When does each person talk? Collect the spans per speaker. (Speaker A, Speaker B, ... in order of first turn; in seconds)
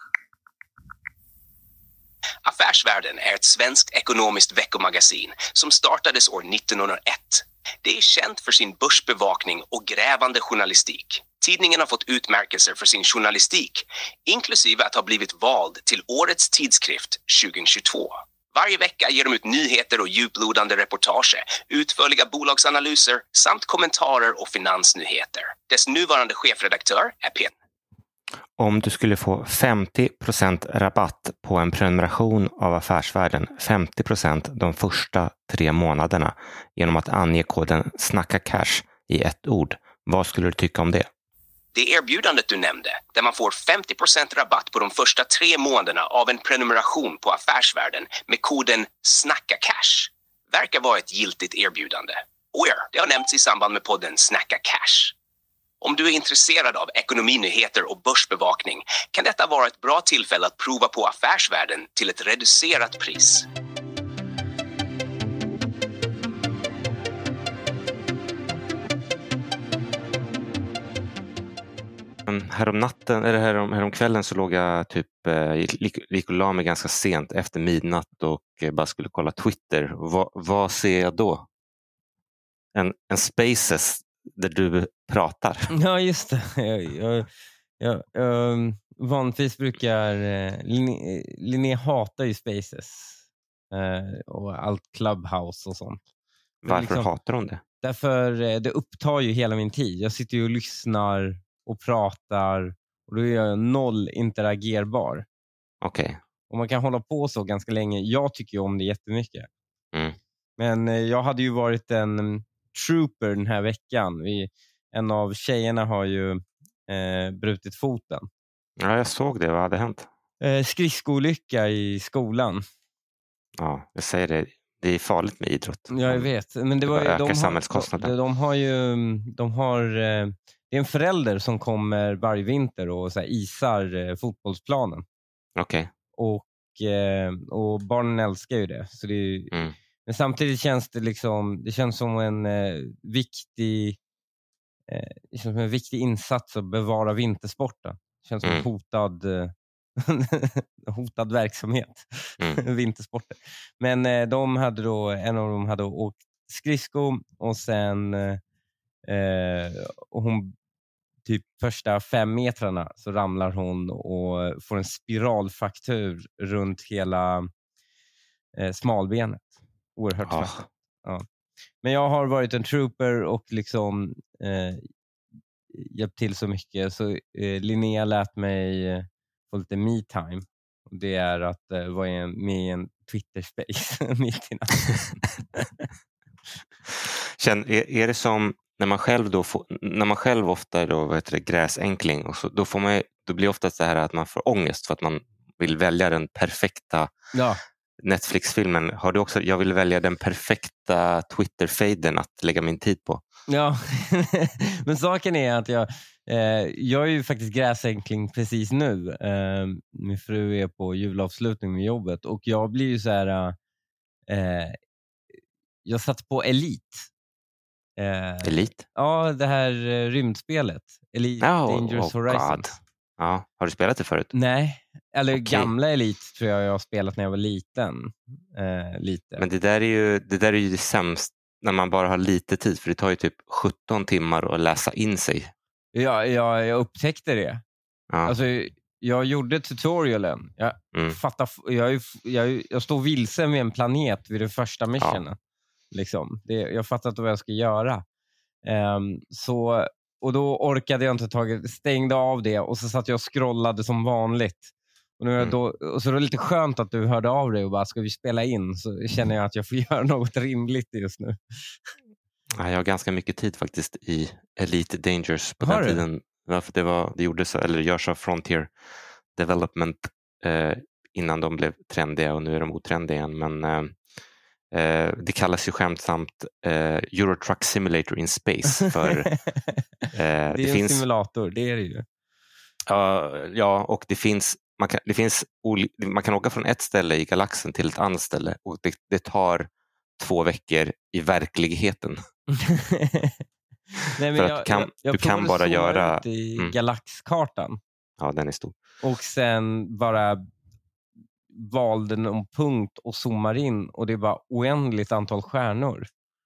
Speaker A: 2.4-27.5, 41.7-55.1, 55.8-63.5
Speaker B: 28.6-41.1, 72.2-81.5, 82.7-85.7, 96.6-97.6, 105.8-106.2, 118.8-120.1, 123.6-126.3, 126.8-128.1, 135.6-135.9, 170.2-170.7, 187.0-197.1, 198.0-203.2, 218.4-218.8, 221.4-224.3, 225.3-225.7, 229.4-235.5, 245.0-245.2, 262.6-268.7, 269.3-274.0, 274.7-279.3, 280.1-281.0, 282.9-292.2, 294.3-296.7, 298.2-298.8
Speaker C: 85.7-87.3, 87.8-93.2, 93.7-96.0, 96.7-97.1, 97.8-105.2, 106.5-109.5, 110.6-118.3, 120.4-122.6, 125.9-135.0, 136.2-144.0, 144.9-158.4, 159.1-160.5, 161.2-167.5, 168.6-171.2, 171.8-174.9, 175.7-185.6, 197.3-197.6, 203.5-213.6, 214.3-214.8, 215.8-217.1, 218.0-222.8, 224.3-229.4, 235.9-237.6, 238.2-245.4, 245.9-248.0, 248.6-261.7, 265.6-266.0, 279.0-279.6, 280.5-282.0, 292.5-293.4, 294.0-297.8, 299.0-300.4, 301.5-306.1